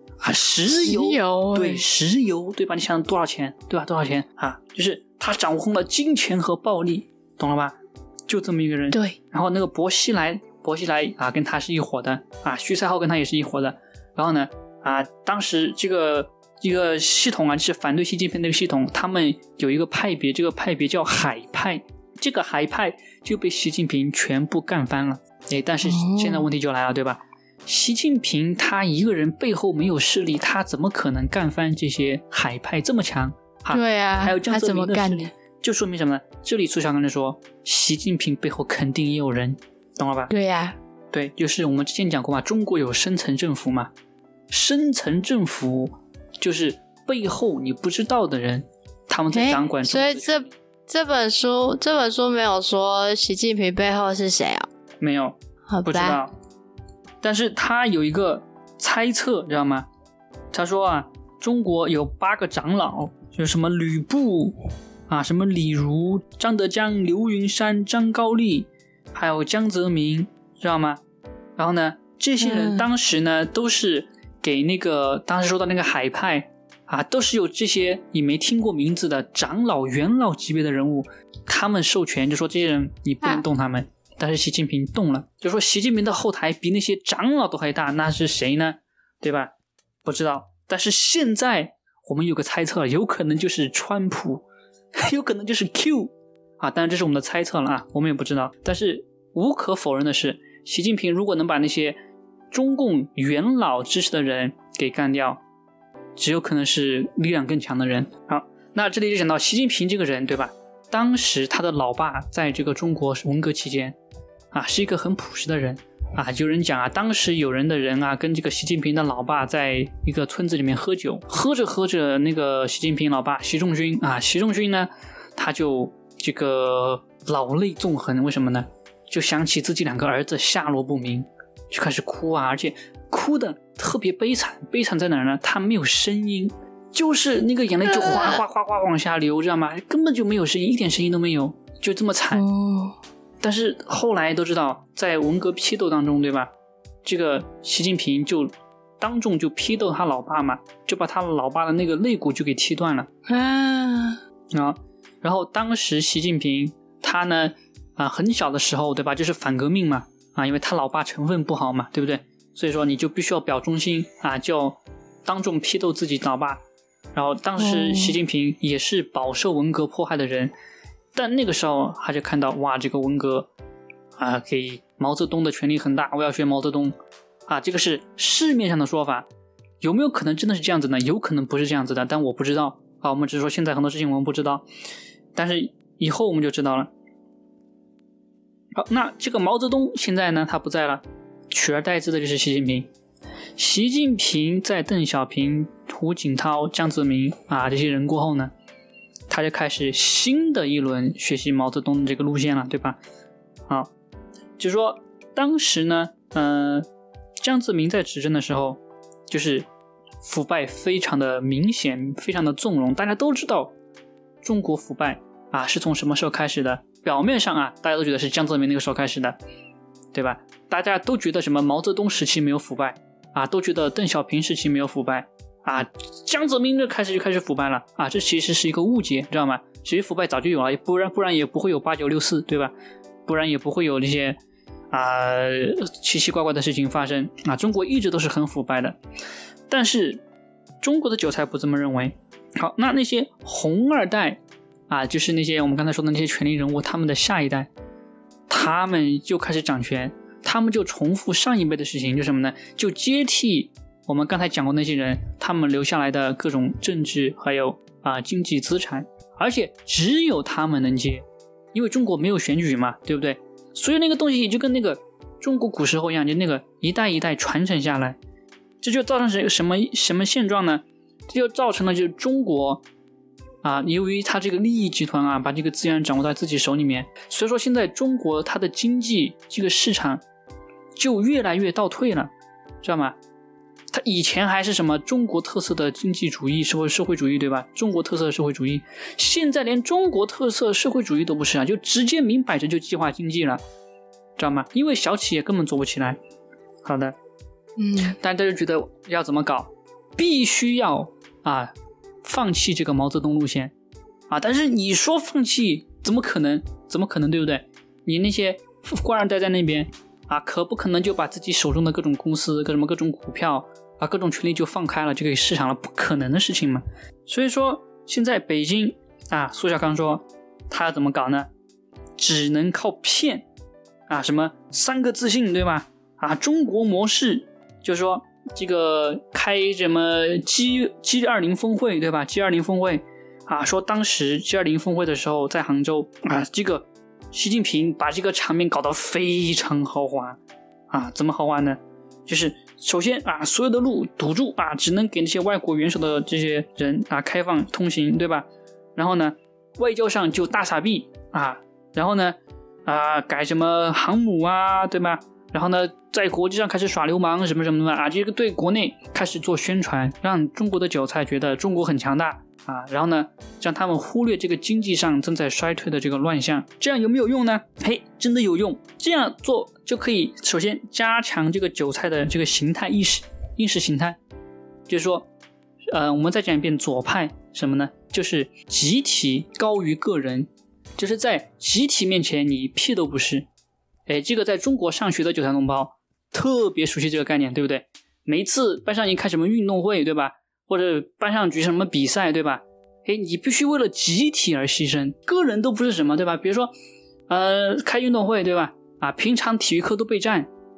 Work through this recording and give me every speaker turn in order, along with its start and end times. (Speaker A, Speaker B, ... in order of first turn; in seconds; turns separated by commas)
Speaker A: 0.2-40.3, Speaker B: 0.7-1.8, Speaker B: 8.9-9.2, Speaker B: 25.9-26.5, Speaker B: 33.7-35.3, Speaker B: 40.3-40.8, Speaker A: 41.1-43.9, Speaker A: 44.5-50.5, Speaker B: 49.3-54.7, Speaker A: 55.0-56.3, Speaker B: 55.7-56.2, Speaker A: 57.2-59.9, Speaker A: 60.5-71.0, Speaker A: 71.6-89.5, Speaker B: 72.4-72.9, Speaker A: 90.0-102.0, Speaker A: 102.5-105.4, Speaker A: 106.2-114.0, Speaker A: 114.5-142.4, Speaker B: 137.8-138.4, Speaker B: 142.3-143.0, Speaker A: 143.4-146.5, Speaker A: 147.0-153.1, Speaker B: 153.3-154.2, Speaker A: 154.5-166.6, Speaker A: 167.1-170.5, Speaker B: 167.6-168.2, Speaker A: 171.2-173.5, Speaker A: 174.2-179.3, Speaker A: 179.8-184.7, Speaker A: 185.3-186.9, Speaker A: 188.7-192.9, Speaker A: 193.6-198.5, Speaker A: 199.3-203.0, Speaker A: 204.6-206.9, Speaker A: 207.4-209.7, Speaker A: 210.2-213.8, Speaker A: 214.4-219.4, Speaker A: 220.1-232.7, Speaker A: 233.2-234.4, Speaker A: 234.9-239.0, Speaker A: 239.7-240.2, Speaker A: 240.8-247.7, Speaker A: 248.5-268.2, Speaker A: 268.8-272.8, Speaker A: 273.6-280.2, Speaker A: 281.0-283.2, Speaker A: 283.9-293.6, Speaker A: 294.4-296.2, Speaker A: 296.8-297.2, Speaker B: 297.8-298.2, Speaker A: 298.0-301.7, Speaker A: 302.2-303.7, Speaker A: 304.3-321.5, Speaker A: 322.2-323.5, Speaker A: 324.1-340.4, Speaker A: 340.9-374.2, Speaker A: 374.9-375.3, Speaker A: 375.9-383.5, Speaker A: 384.1-396.7, Speaker A: 397.3-400.5